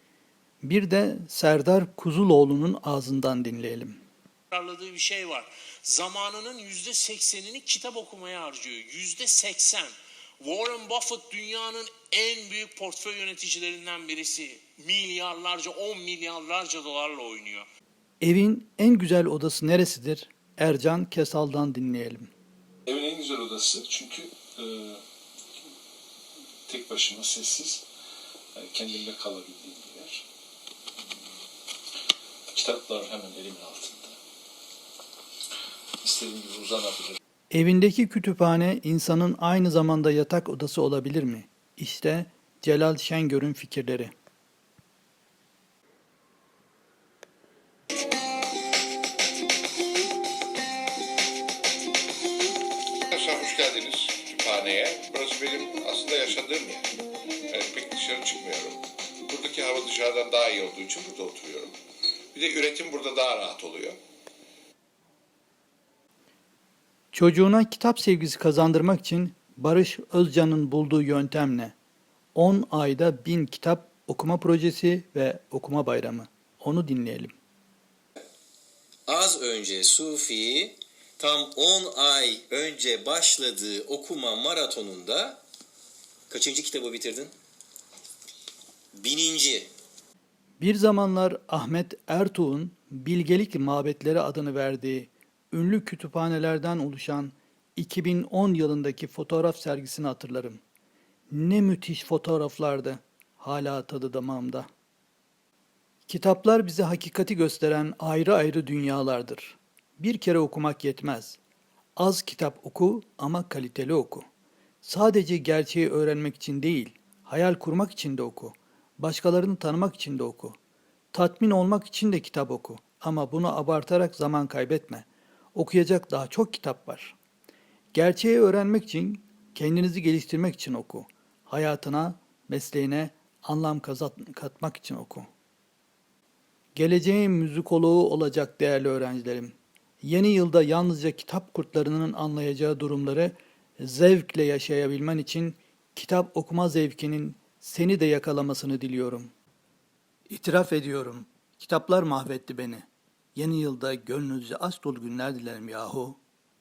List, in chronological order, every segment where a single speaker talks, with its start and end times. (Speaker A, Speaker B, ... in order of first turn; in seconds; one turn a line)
Speaker A: 0.6-4.0
Speaker B: 4.5-17.6
Speaker A: 18.2-22.3
Speaker C: 22.9-25.0
Speaker C: 26.7-27.8
Speaker C: 28.6-30.2
Speaker C: 32.5-34.2
Speaker C: 36.0-37.2
Speaker A: 37.5-44.1
Speaker D: 53.1-56.9
Speaker D: 57.5-61.7
Speaker D: 62.3-64.0
Speaker A: 67.1-71.7
Speaker A: 72.3-77.3
Speaker E: 79.1-85.4
Speaker E: 86.3-87.3
Speaker E: 89.0-89.7
Speaker A: 90.6-100.6
Speaker A: 101.3-104.7
Speaker A: 106.1-111.4
Speaker A: 112.0-114.3
Speaker A: 114.8-120.6
Speaker A: 121.1-127.2
Speaker A: 127.9-135.3
Speaker A: 136.8-149.3
Speaker A: 150.3-156.2